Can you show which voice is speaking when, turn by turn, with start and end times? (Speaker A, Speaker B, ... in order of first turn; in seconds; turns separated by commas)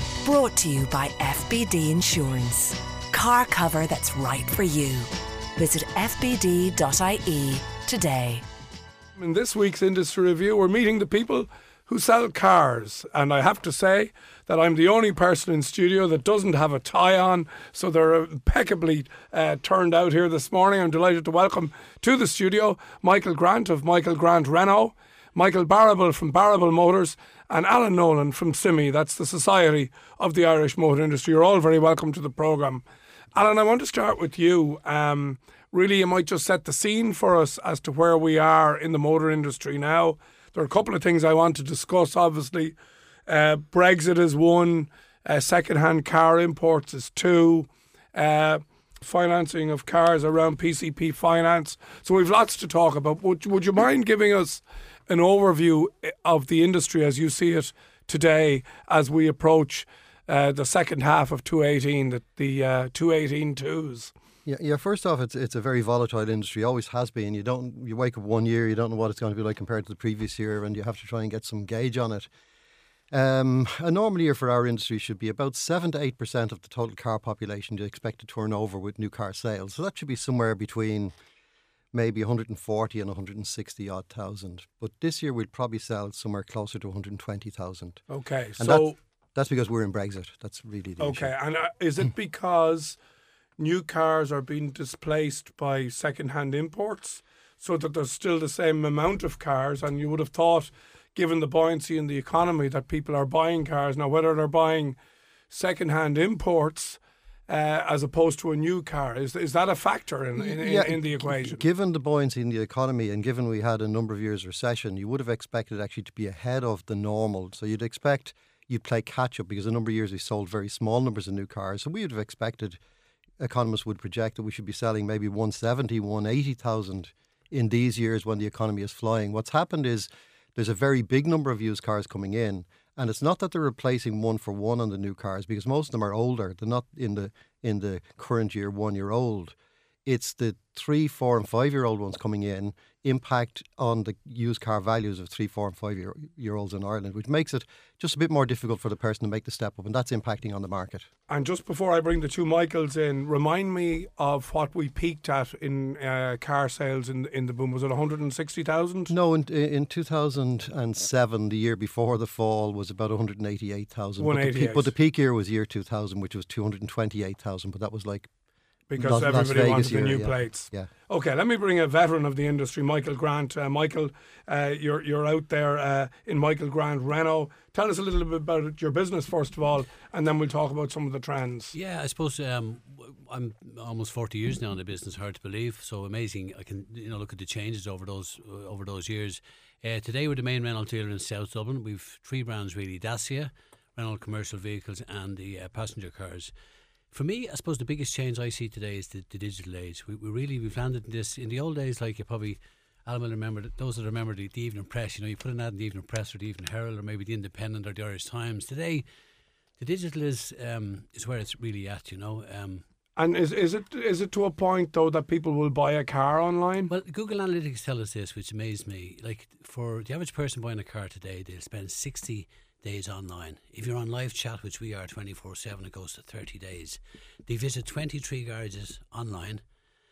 Speaker A: 0.2-8.4, Speaker B: 9.2-64.1, Speaker C: 64.5-72.3, Speaker C: 73.1-81.1, Speaker C: 81.9-88.0, Speaker B: 88.1-89.0, Speaker C: 88.6-91.3, Speaker B: 91.0-93.0, Speaker B: 93.6-105.0, Speaker B: 105.5-111.6, Speaker C: 110.4-122.8, Speaker C: 123.4-151.1, Speaker B: 151.3-159.1, Speaker C: 159.1-168.3, Speaker B: 164.2-164.9, Speaker B: 168.9-181.8, Speaker C: 169.0-170.9, Speaker D: 181.7-196.5, Speaker D: 197.1-209.1, Speaker D: 209.8-212.8, Speaker B: 213.2-216.9, Speaker D: 216.9-229.6